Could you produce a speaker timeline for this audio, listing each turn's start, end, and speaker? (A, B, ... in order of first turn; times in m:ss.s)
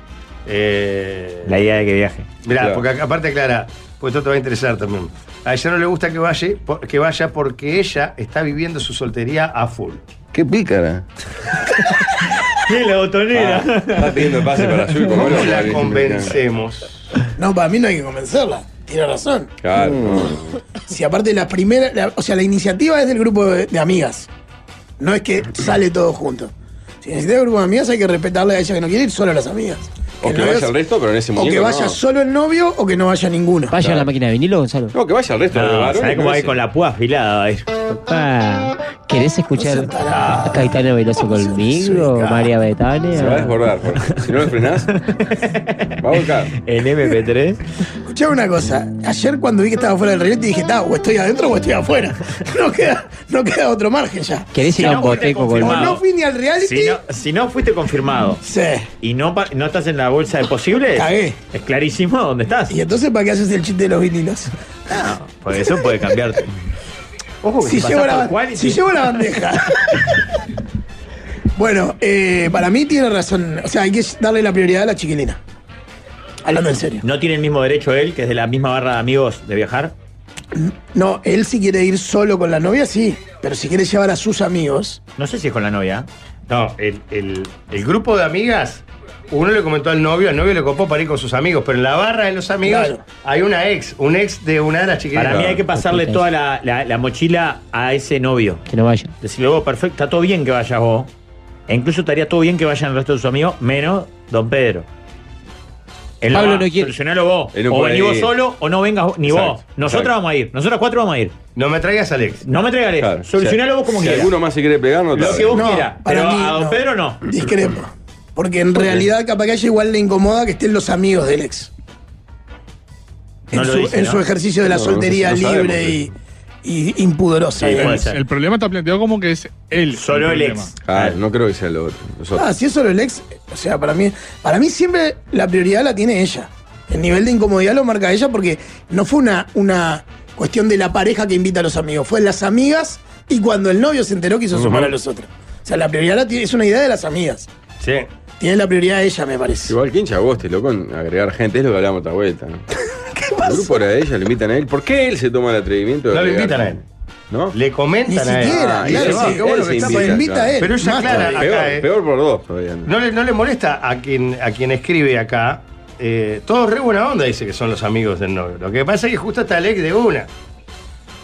0:00.4-0:01.5 A
0:01.4-0:02.3 B
0:02.4-0:10.0 A
0:02.6-0:02.8 C
0:10.3-0:11.1 C
0:12.5-0:15.0 B
0:13.3-0:16.4 C
0:15.1-0:17.0 A
0:17.4-0:19.5 D
0:19.6-0:20.6 C
0:20.9-0:24.3 D
0:25.0-0:26.5 D
0:27.0-0:30.7 D
0:30.2-0:32.0 C
0:31.4-0:33.8 D
0:33.7-0:34.9 E
0:33.7-0:34.1 C
0:34.9-0:36.6 C
0:35.5-0:37.7 B
0:37.9-0:43.6 E
0:39.5-0:40.7 D
0:40.2-0:40.4 A
0:41.2-0:42.4 D
0:43.1-0:44.9 C
0:45.0-0:45.6 B
0:46.0-0:46.5 C
0:46.6-0:47.6 B
0:48.0-0:57.0 D
0:54.5-0:56.0 E
0:54.7-0:56.0 B
0:56.6-0:58.4 B
0:58.4-0:58.9 D
0:59.0-1:02.7 B
1:00.9-1:01.4 D
1:02.7-1:04.5 D
1:04.9-1:06.5 B
1:07.4-1:09.2 B
1:07.6-1:10.2 D
1:11.6-1:15.4 D
1:16.4-1:17.0 D
1:17.0-1:19.9 B
1:20.5-1:25.0 D
1:25.2-1:26.1 B
1:26.5-1:35.6 A
1:32.6-1:33.0 D
1:35.1-1:38.6 B
1:35.3-1:35.6 C
1:35.7-1:36.2 E
1:38.7-1:39.1 E
1:39.2-1:41.1 B
1:41.7-1:44.9 B
1:46.2-1:51.3 B
1:46.3-1:46.9 E
1:47.5-1:48.3 C
1:49.2-1:50.1 C
1:51.6-1:52.4 A
1:52.4-1:54.3 B
1:53.0-1:55.6 C
1:55.1-1:57.2 B
1:55.3-2:01.7 D
2:03.5-2:06.1 D
2:03.5-2:04.2 B
2:04.6-2:06.1 C
2:06.6-2:08.1 D
2:07.6-2:08.2 B
2:07.6-2:10.7 F
2:09.9-2:11.2 B
2:10.8-2:12.4 C
2:12.3-2:27.5 D
2:24.5-2:24.9 C
2:27.8-2:28.1 A
2:28.4-2:29.7 D
2:29.7-2:32.6 C
2:33.1-2:33.8 D
2:33.4-2:37.6 C
2:36.1-2:36.8 A
2:37.5-2:41.9 A
2:38.1-2:41.5 D
2:38.4-2:42.9 C
2:42.8-2:50.3 A